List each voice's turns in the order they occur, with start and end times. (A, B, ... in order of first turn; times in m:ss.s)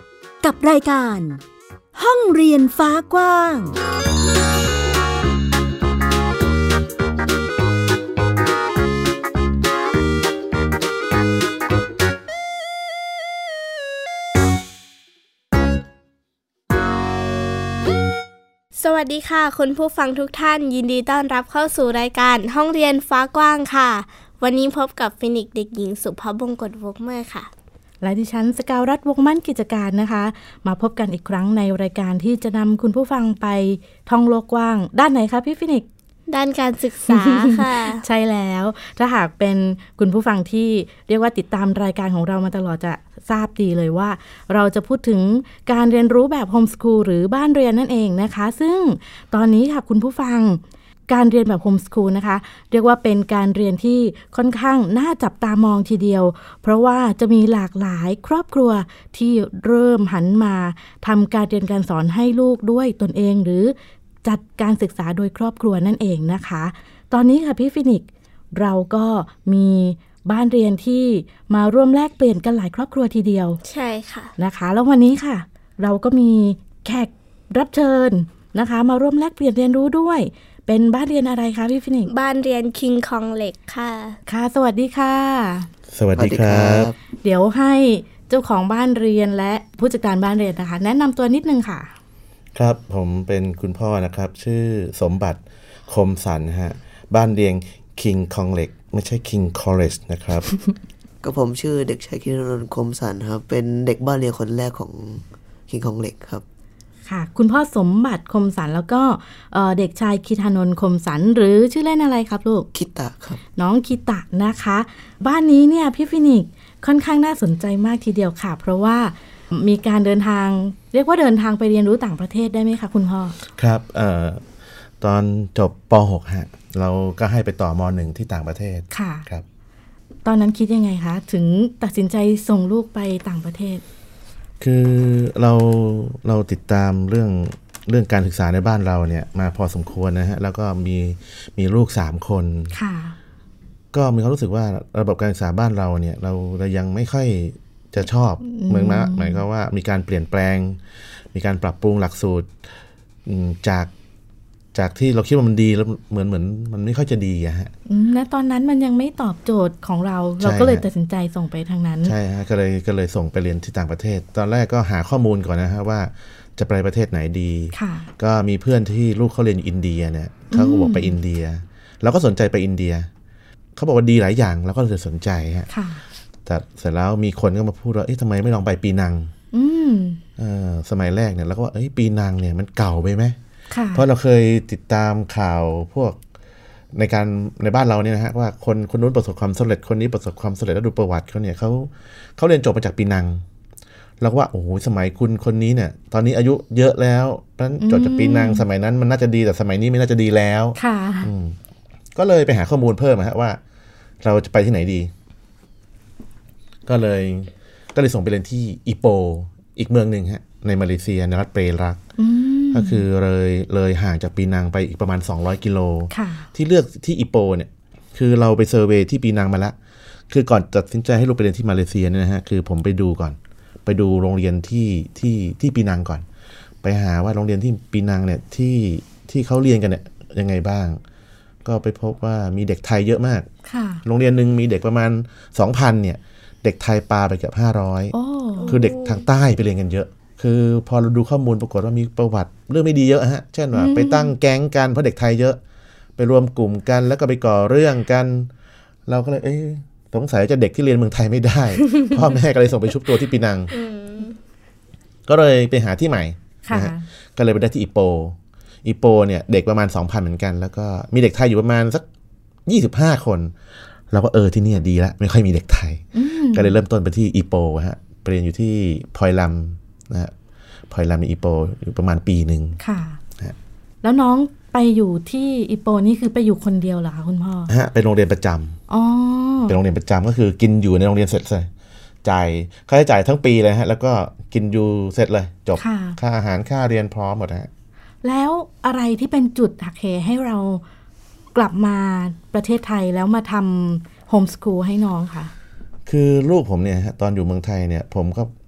0:00.4-0:01.4 A
0:02.0-0:03.7 A
0:18.8-0:27.5 B
0:28.0-0:35.9 C
0:36.3-0:38.0 B
0:37.1-1:13.6 C
1:13.6-1:14.3 B
1:14.4-1:22.1 C
1:22.1-1:24.2 B
1:24.3-1:25.7 C
1:25.9-1:26.9 D
1:26.2-1:27.0 E
1:27.2-1:31.9 C
1:32.6-1:40.5 D
1:41.2-1:46.4 E
1:47.1-1:52.7 C
1:52.7-1:53.4 E
1:53.6-2:03.4 C
2:03.5-2:04.4 D
2:05.0-2:09.4 D
2:08.9-2:09.3 C
2:10.2-2:13.8 C
2:14.6-2:22.8 D
2:22.7-2:23.2 C
2:23.9-2:30.8 D
2:28.4-2:29.4 C
2:31.3-2:32.6 D
2:33.3-2:33.9 D
2:34.7-2:37.7 D
2:37.9-2:42.1 C
2:40.4-2:40.8 D
2:42.0-2:53.1 D
2:47.7-2:48.1 C
2:50.5-2:51.2 C
2:53.8-2:55.7 D
2:55.7-2:56.0 C
2:56.5-2:59.3 D
2:59.5-3:00.2 C
3:00.4-3:03.4 D
3:03.7-3:04.1 C
3:03.9-3:06.2 D
3:06.9-3:13.4 D
3:14.2-3:21.6 D
3:17.8-3:18.6 C
3:20.8-3:21.3 C
3:22.2-3:23.6 D
3:24.2-3:25.1 D
3:26.9-3:32.0 D
3:32.2-3:33.0 C
3:32.7-3:39.8 D
3:36.1-3:36.5 C
3:40.3-3:46.2 D
3:46.8-3:51.0 D
3:51.6-3:53.5 D
3:53.6-3:54.0 C
3:54.0-3:58.1 D
3:58.1-3:58.7 C
3:58.6-3:59.2 B
3:58.7-4:05.6 D
4:03.7-4:04.3 C
4:06.2-4:08.5 D
4:09.1-4:13.8 D
4:13.7-4:14.4 B
4:15.3-4:22.0 D
4:16.6-4:17.0 C
4:22.7-4:23.5 D
4:24.1-4:30.3 D
4:26.1-4:26.8 C
4:30.9-4:32.8 D
4:32.8-4:33.2 C
4:34.0-4:37.7 C
4:37.7-4:38.8 D
4:38.9-4:39.8 C
4:39.7-4:41.7 D
4:42.2-4:47.7 D
4:45.8-4:46.2 C
4:48.2-4:50.8 C
4:51.5-4:55.5 C
4:56.1-4:58.5 D